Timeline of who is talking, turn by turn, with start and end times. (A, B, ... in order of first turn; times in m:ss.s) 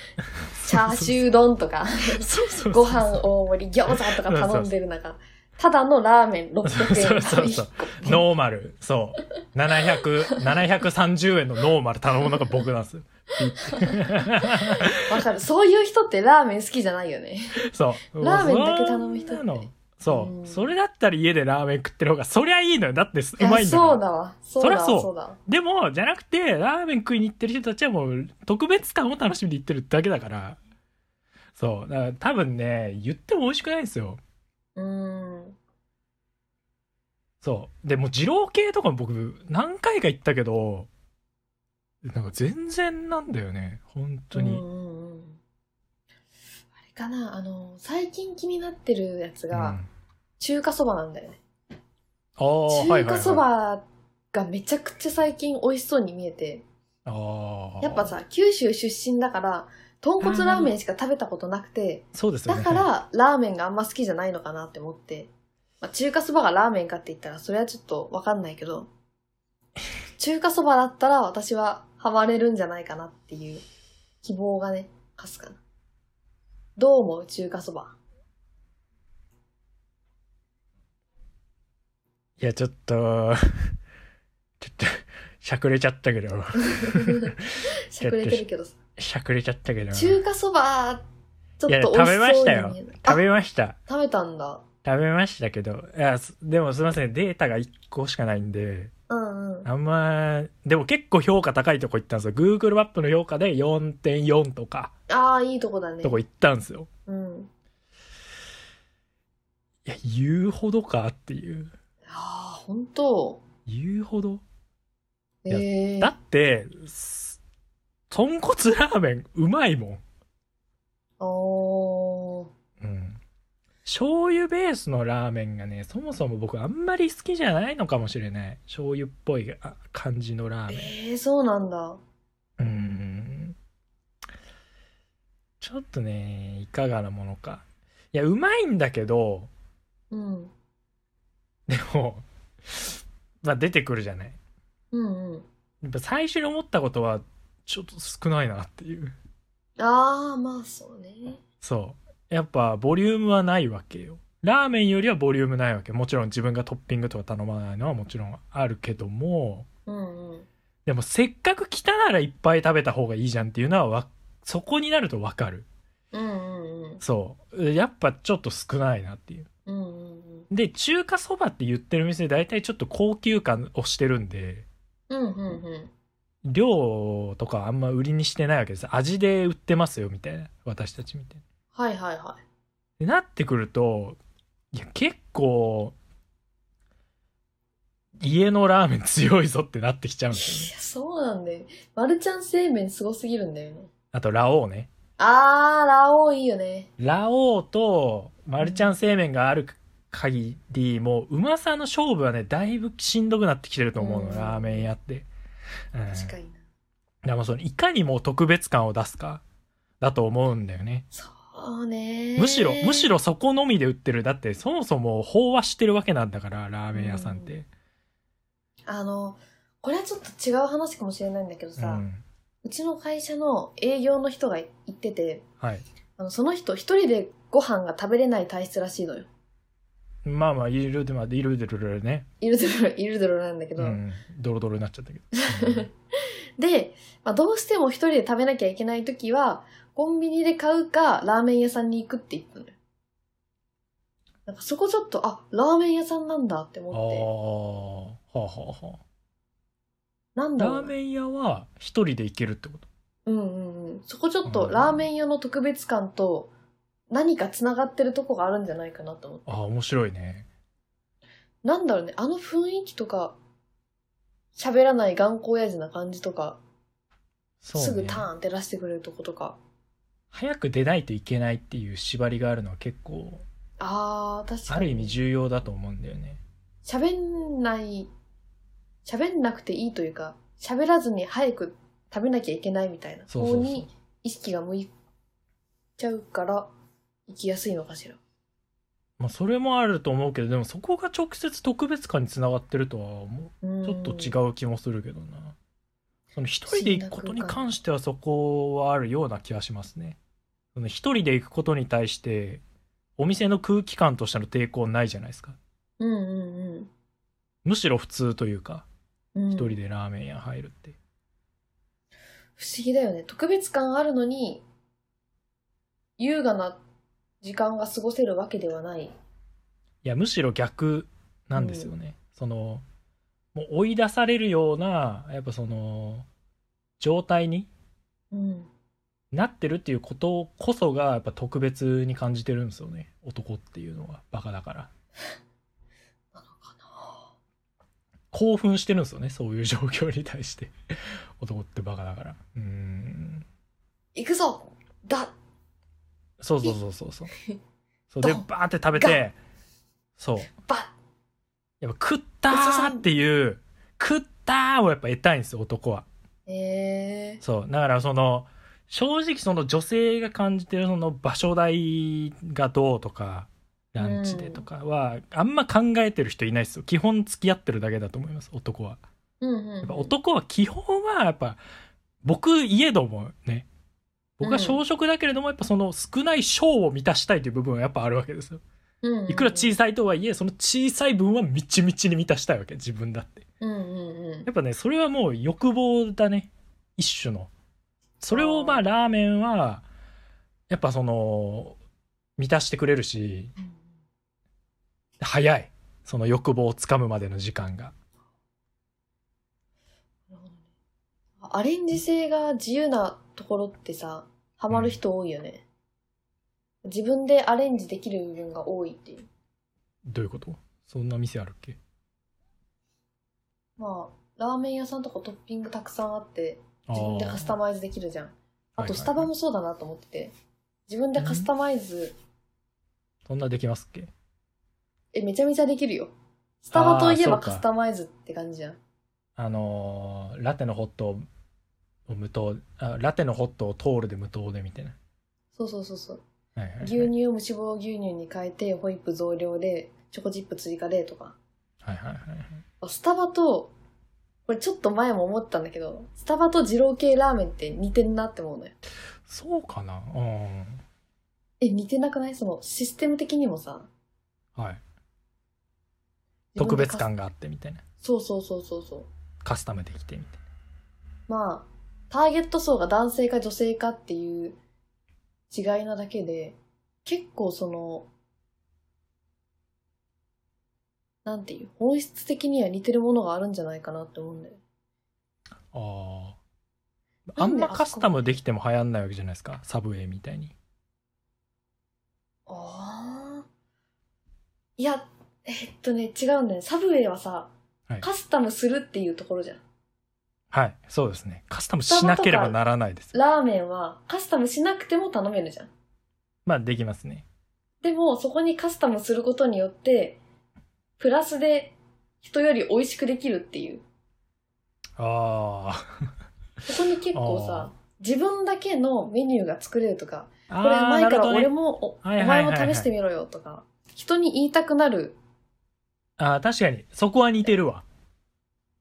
0:00.5-0:01.2 A
0:00.6-0:08.2 B
0:02.2-0:03.3 A
0:03.9-0:04.7 A
0:06.6-0:15.2 A
0:13.5-0:17.6 B
0:17.6-0:24.0 A
0:18.2-0:20.7 B
0:23.4-0:25.4 B
0:24.6-0:30.6 A
0:31.6-0:34.2 A
0:34.8-0:35.6 B
0:37.4-0:40.9 A
0:42.0-0:44.6 A
0:44.3-0:45.4 B
0:46.8-0:49.8 B
0:49.5-0:49.9 A
0:50.4-0:51.4 B
0:52.4-0:53.4 A
0:52.7-0:56.6 B
0:57.0-0:58.1 A
0:57.8-1:05.3 B
1:00.2-1:00.7 A
1:02.1-1:02.9 A
1:05.8-1:08.9 B
1:10.2-1:13.6 B
1:14.2-1:15.6 B
1:16.8-1:18.0 B
1:22.4-1:23.8 A
1:24.6-1:28.4 A
1:26.6-1:28.8 B
1:29.0-1:30.2 A
1:29.9-1:31.0 B
1:31.6-1:33.2 B
1:31.7-1:33.8 A
1:33.9-1:34.6 B
1:34.8-1:38.9 A
1:39.1-1:39.7 B
1:39.6-1:44.9 A
1:45.1-1:46.2 B
1:46.0-1:46.9 A
1:47.1-1:47.5 B
1:49.8-1:51.7 A
1:52.1-1:53.4 B
1:53.6-1:54.4 A
1:55.4-1:56.1 B
1:55.5-1:57.4 A
1:58.1-2:00.0 A
2:01.2-2:02.5 B
2:02.8-2:03.2 A
2:03.8-2:10.9 A
2:10.7-2:12.0 B
2:12.6-2:13.6 A
2:15.6-2:19.5 A
2:20.1-2:20.5 B
2:21.7-2:24.4 A
2:24.9-2:25.5 B
2:25.8-2:29.1 A
2:29.8-2:31.4 B
2:31.6-2:39.7 A
2:39.9-2:40.5 B
2:40.8-2:45.7 A
2:46.1-2:47.0 B
2:47.0-2:49.5 A
2:49.7-2:50.5 B
2:50.5-2:54.7 A
2:55.1-2:55.9 B
2:56.4-3:01.4 A
3:01.7-3:02.4 B
3:03.0-3:04.2 A
3:04.7-3:06.0 A
3:08.2-3:10.7 A
3:10.3-3:13.9 B
3:14.1-3:14.9 A
3:15.2-3:16.9 B
3:17.0-3:25.3 A
3:18.6-3:18.9 B
3:24.0-3:24.9 B
3:25.9-3:26.3 A
3:26.1-3:26.6 B
3:27.2-3:29.4 A
3:30.0-3:31.0 A
3:31.1-3:33.1 B
3:32.4-3:37.7 A
3:36.9-3:37.5 B
3:38.9-3:42.0 B
3:41.8-3:42.2 A
3:42.6-3:45.4 B
3:46.2-3:49.3 B
3:50.2-3:52.3 A
3:52.4-3:54.0 B
3:53.8-3:55.9 A
3:55.3-3:55.9 B
3:56.6-4:02.8 B
4:04.4-4:07.3 B
4:06.9-4:09.0 A
4:10.4-4:10.9 B
4:10.6-4:12.9 A
4:13.2-4:16.5 B
4:14.4-4:15.0 A
4:17.1-4:19.5 B
4:19.5-4:20.5 A
4:21.6-4:23.4 B
4:24.6-4:26.6 B
4:27.6-4:28.3 A
4:27.7-4:29.6 B
4:30.3-4:33.4 A
4:33.8-4:35.2 B
4:34.7-4:36.4 A
4:36.8-4:38.1 B
4:39.0-4:44.9 B
4:43.3-4:43.9 A
4:46.0-4:46.7 B
4:47.3-4:48.2 B
4:49.2-4:55.6 A
4:53.6-4:54.4 B
4:56.4-5:00.2 A
4:56.7-4:57.6 B
5:00.7-5:02.6 A
5:03.2-5:05.6 A
5:06.0-5:06.9 B
5:07.6-5:08.9 A
5:09.3-5:09.8 B
5:09.5-5:11.0 A
5:12.6-5:14.6 B
5:16.2-5:16.8 B
5:17.4-5:19.1 B
5:20.0-5:22.8 A
5:21.5-5:21.9 B
5:23.5-5:26.2 A
5:27.0-5:27.7 A
5:28.3-5:28.7 B
5:29.3-5:34.9 A
5:36.3-5:37.2 B
5:38.3-5:40.7 A
5:41.4-5:43.4 A
5:44.2-5:45.3 B
5:46.4-5:47.3 A
5:48.1-5:49.4 A
5:48.2-5:49.2 B
5:50.2-5:50.5 A
5:50.6-5:50.9 B
5:51.8-5:56.1 A
5:52.5-5:53.0 B
5:56.5-5:57.4 B
5:57.4-6:09.0 A
6:04.0-6:04.6 B
6:09.4-6:10.2 B
6:09.8-6:11.6 A
6:12.2-6:13.7 A
6:14.4-6:18.6 A
6:14.4-6:14.8 B
6:19.0-6:19.8 B
6:19.3-6:23.4 A
6:23.6-6:24.5 B
6:24.4-6:27.5 A
6:28.2-6:29.8 A
6:28.3-6:28.8 B
6:30.7-6:31.8 A
6:32.4-6:33.5 A
6:35.2-6:37.9 A
6:40.3-6:40.6 B
6:41.4-6:45.6 B
6:44.7-6:45.0 A
6:46.8-6:49.3 B
6:50.0-6:51.8 A
6:53.8-7:00.3 B
6:56.9-6:57.5 A
6:58.8-6:59.3 A
7:00.9-7:02.1 B
7:01.2-7:01.5 A
7:03.2-7:04.1 A
7:05.1-7:08.8 B
7:06.7-7:07.6 A
7:09.4-7:11.2 A
7:12.1-7:15.0 A
7:15.5-7:16.2 B
7:16.6-7:17.1 A
7:16.8-7:21.4 B
7:21.8-7:22.6 A
7:22.8-7:23.7 B
7:24.5-7:28.7 B
7:29.2-7:30.8 A
7:31.6-7:33.9 B
7:34.6-7:34.8 A
7:36.5-7:37.1 B
7:36.6-7:37.8 A
7:38.0-7:39.1 B
7:39.4-7:40.4 A
7:41.3-7:44.6 B
7:45.5-7:48.1 B
7:51.2-7:54.6 B
7:55.7-7:56.4 A
7:57.3-8:00.5 A
7:57.4-7:58.3 B
8:02.5-8:03.4 B
8:04.8-8:09.6 B
8:10.5-8:13.1 A
8:11.9-8:12.6 B
8:13.1-8:15.7 B
8:16.4-8:17.2 A
8:17.8-8:20.2 B
8:21.0-8:23.8 B
8:25.0-8:25.8 A
8:26.6-8:35.2 B
8:27.1-8:27.7 A
8:30.5-8:32.9 A
8:36.2-8:37.8 A